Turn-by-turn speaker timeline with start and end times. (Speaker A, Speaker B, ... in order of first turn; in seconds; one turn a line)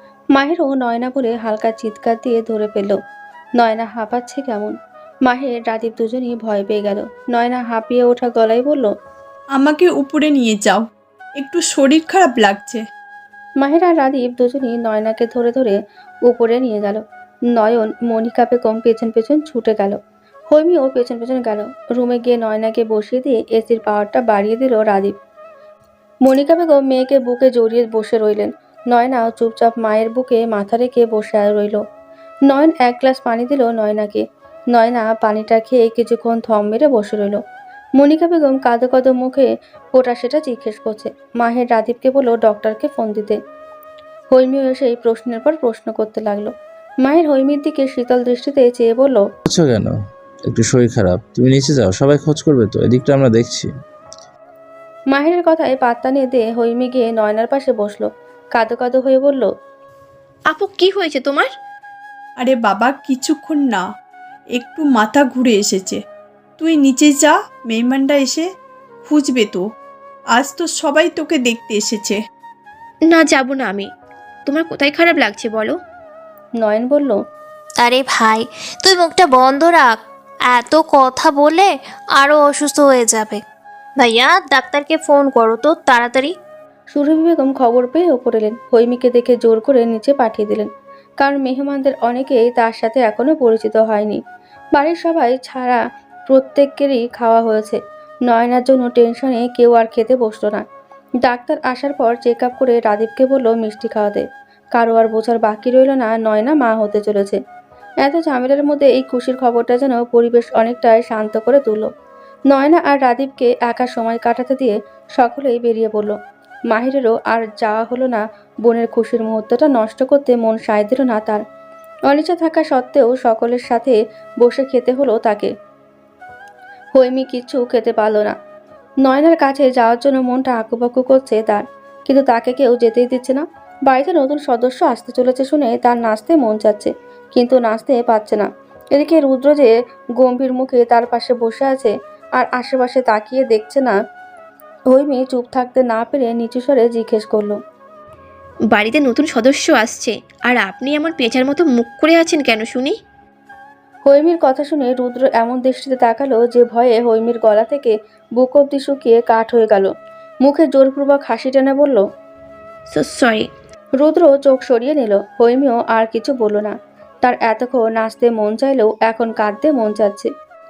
Speaker A: 0.3-3.0
Speaker A: 3.6-8.9
Speaker B: 9.6-10.9
Speaker B: 11.4-12.8
Speaker A: 13.6-20.0
Speaker A: 20.5-25.1
Speaker A: 26.2-31.8
Speaker A: 32.5-37.4
Speaker A: 38.0-43.4
Speaker A: 44.3-46.5
Speaker A: 47.0-49.2
Speaker C: 49.5-53.7
Speaker A: 55.1-59.5
Speaker D: 60.5-61.5
Speaker B: 62.4-63.8
Speaker B: 64.5-66.0
Speaker B: 66.6-68.5
Speaker B: 69.0-69.7
Speaker B: 70.3-72.2
Speaker D: 73.1-73.9
Speaker D: 74.5-75.8
Speaker A: 76.6-77.2
Speaker E: 77.8-83.4
Speaker E: 84.0-86.4
Speaker A: 86.9-90.7
Speaker A: 91.2-94.2
Speaker A: 94.8-100.7
Speaker A: 101.2-107.4
Speaker A: 108.0-111.9
Speaker A: 112.5-116.2
Speaker A: 116.7-121.4
Speaker A: 122.1-125.5
Speaker A: 127.0-128.4
Speaker A: 129.0-144.0
Speaker A: 144.9-147.6
Speaker D: 148.7-153.0
Speaker A: 154.1-159.9
Speaker A: 160.4-162.1
Speaker D: 162.9-163.5
Speaker A: 164.0-170.3